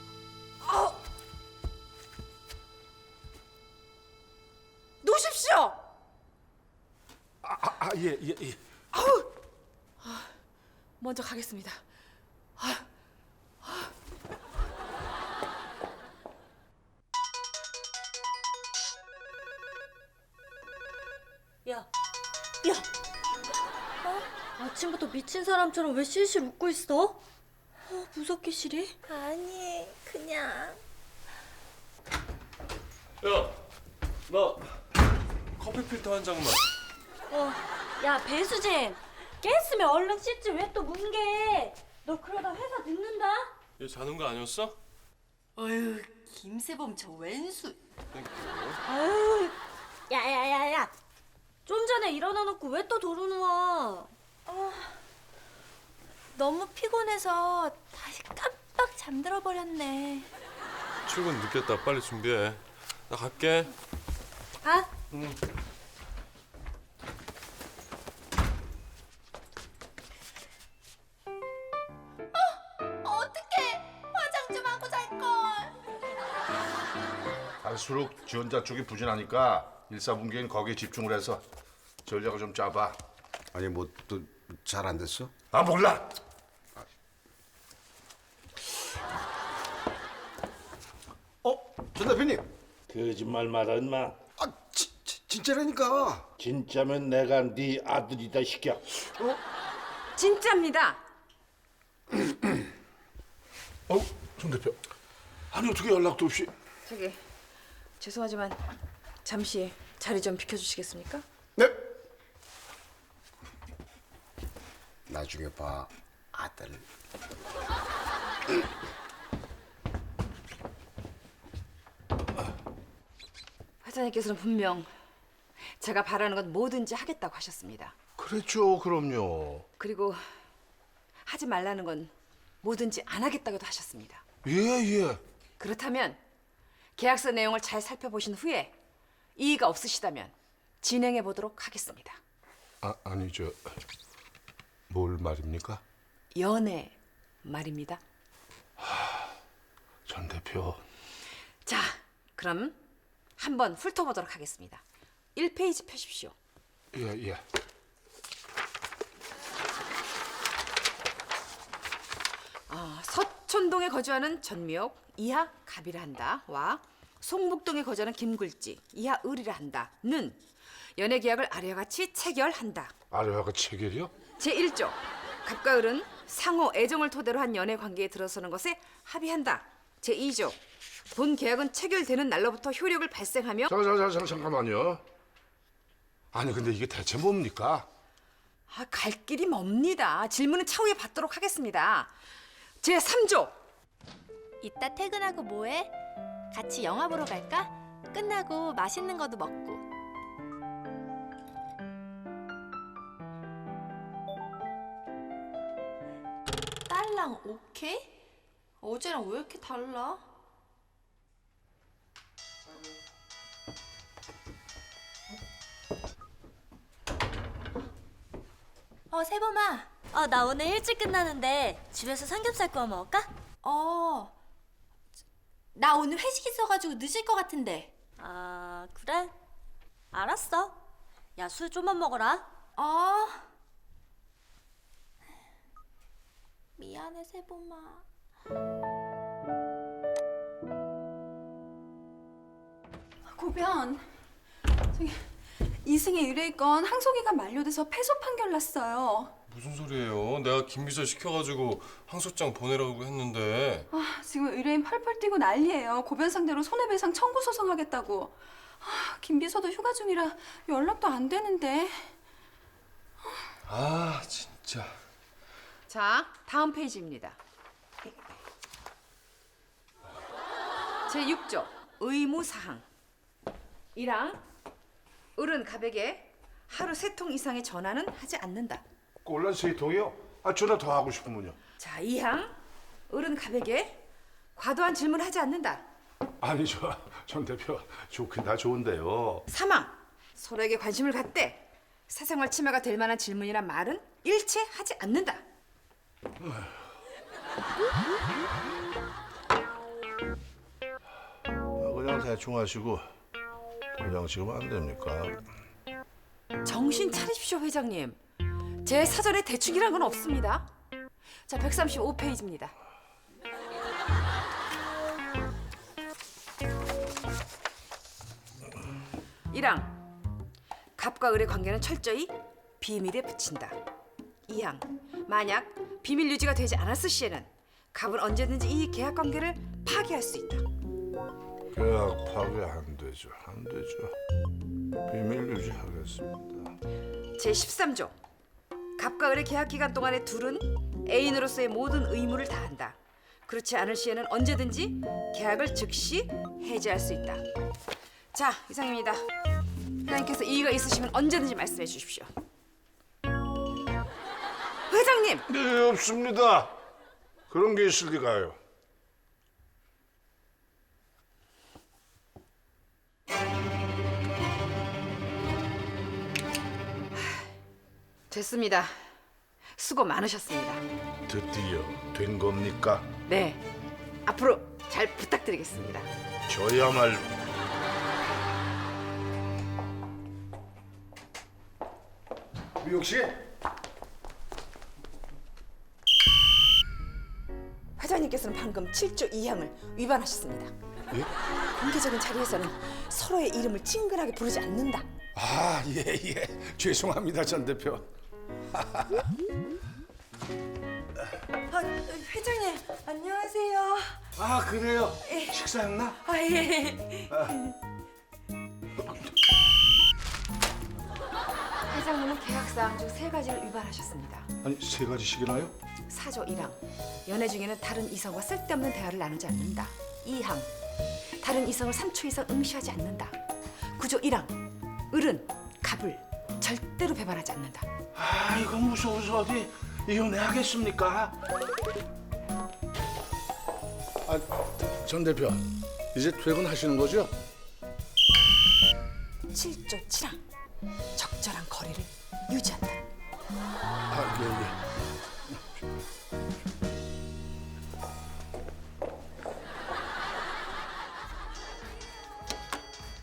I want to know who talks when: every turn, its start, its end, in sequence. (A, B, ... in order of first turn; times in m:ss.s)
0:00.6-0:01.0 A
0:05.0-0:05.8 A
0:07.4-0:08.6 B
0:08.9-0:09.3 A
0:10.0-0:10.3 A
0:11.0-0:11.8 A
0:12.6-0:12.8 A
0:13.6-0:13.9 A
0:24.1-0:27.2 C
0:27.9-0:29.0 C
0:29.1-0:30.8 D
0:33.2-0:33.6 E
0:34.3-0:34.7 E
0:35.6-0:36.7 E
0:37.3-0:43.5 C
0:43.8-0:44.8 E
0:45.6-0:47.8 D
0:48.1-0:48.8 E
0:48.9-0:49.6 C
0:50.1-0:50.9 C
0:51.7-0:54.1 C
0:54.5-0:55.0 D
0:56.4-1:00.3 D
1:01.1-1:03.7 E
1:04.6-1:04.9 C
1:12.3-1:15.8 D
1:17.6-1:21.4 B
1:22.0-1:23.0 B
1:23.5-1:25.4 F
1:25.5-1:26.1 B
1:31.4-1:32.5 F
1:32.9-1:34.2 B
1:34.4-1:36.3 F
1:36.4-1:38.8 B
1:40.2-1:41.0 A
1:43.9-1:44.8 B
1:45.5-1:46.5 B
1:46.8-1:47.2 A
1:48.0-1:48.6 A
1:49.2-1:51.2 A
1:55.1-1:56.9 F
2:03.8-2:04.9 A
2:05.8-2:08.0 A
2:08.2-2:09.7 B
2:09.8-2:10.2 A
2:11.2-2:14.2 A
2:14.4-2:15.2 B
2:15.6-2:16.2 A
2:17.0-2:18.8 A
2:19.4-2:22.2 A
2:22.8-2:23.7 B
2:24.9-2:25.8 B
2:26.4-2:28.0 A
2:28.8-2:29.3 B
2:30.1-2:30.8 B
2:31.6-2:32.8 A
2:33.4-2:34.8 A
2:35.4-2:36.4 A
2:36.9-2:37.4 B
2:42.7-2:50.4 A
2:51.0-2:52.9 A
2:53.1-2:54.1 B
2:54.4-3:00.6 A
3:01.1-3:03.7 A
3:03.7-3:05.0 B
3:06.3-3:07.9 B
3:08.7-3:12.2 A
3:12.8-3:13.6 A
3:14.6-3:15.9 D
3:16.5-3:19.9 D
3:26.9-3:28.1 D
3:28.8-3:30.3 D
3:39.1-3:39.9 D
3:40.1-3:43.3 C
3:43.6-3:44.3 D
3:45.8-3:47.9 D
3:48.2-3:49.3 C
3:50.1-3:50.8 C
3:51.4-3:52.5 C
3:52.8-3:53.5 D
3:56.8-3:58.0 D
4:03.2-4:04.0 G
4:04.9-4:05.3 G
4:05.8-4:09.3 G
4:09.5-4:13.9 E
4:13.9-4:22.1 G
4:23.6-4:25.0 E
4:25.9-4:27.4 A
4:31.1-4:32.8 A
4:33.9-4:34.4 A
4:35.4-4:38.8 A
4:39.2-4:41.6 B
4:41.8-4:42.6 A
4:43.1-4:44.0 A
4:44.6-4:45.9 A
4:46.4-4:49.5 B
4:49.5-4:55.4 A
4:56.4-4:56.8 B
5:01.8-5:03.1 B
5:04.0-5:05.4 B
5:06.6-5:08.2 A
5:08.8-5:10.7 A
5:11.5-5:12.8 A
5:19.5-5:20.0 A
5:21.0-5:23.8 A
5:24.5-5:30.6 A
5:31.7-5:34.1 B
5:35.1-5:36.8 B
5:37.4-5:38.2 A
5:39.0-5:47.4 A
5:48.3-5:49.2 A
5:50.0-5:52.3 A
5:54.9-5:55.5 A
5:55.5-5:56.7 B
5:57.5-5:58.6 B
6:07.1-6:07.5 A
6:08.3-6:09.1 A
6:09.8-6:10.8 A
6:11.3-6:13.1 B
6:13.3-6:13.6 A
6:14.3-6:16.1 A
6:16.5-6:17.3 B
6:22.8-6:23.4 B
6:28.0-6:30.7 A
6:31.8-6:35.1 A
6:35.4-6:38.1 B
6:38.7-6:39.2 B
6:41.7-6:44.2 D
6:44.4-6:46.2 B
6:45.3-6:45.5 D
6:46.2-6:47.6 D
6:47.3-6:47.6 B
6:51.9-6:54.5 A
6:54.6-6:55.7 B
6:56.1-7:00.7 A
7:01.4-7:03.4 A
7:04.0-7:07.9 A
7:08.2-7:11.4 B
7:14.2-7:17.3 B
7:19.5-7:20.4 A
7:21.2-7:23.0 A
7:24.1-7:24.8 B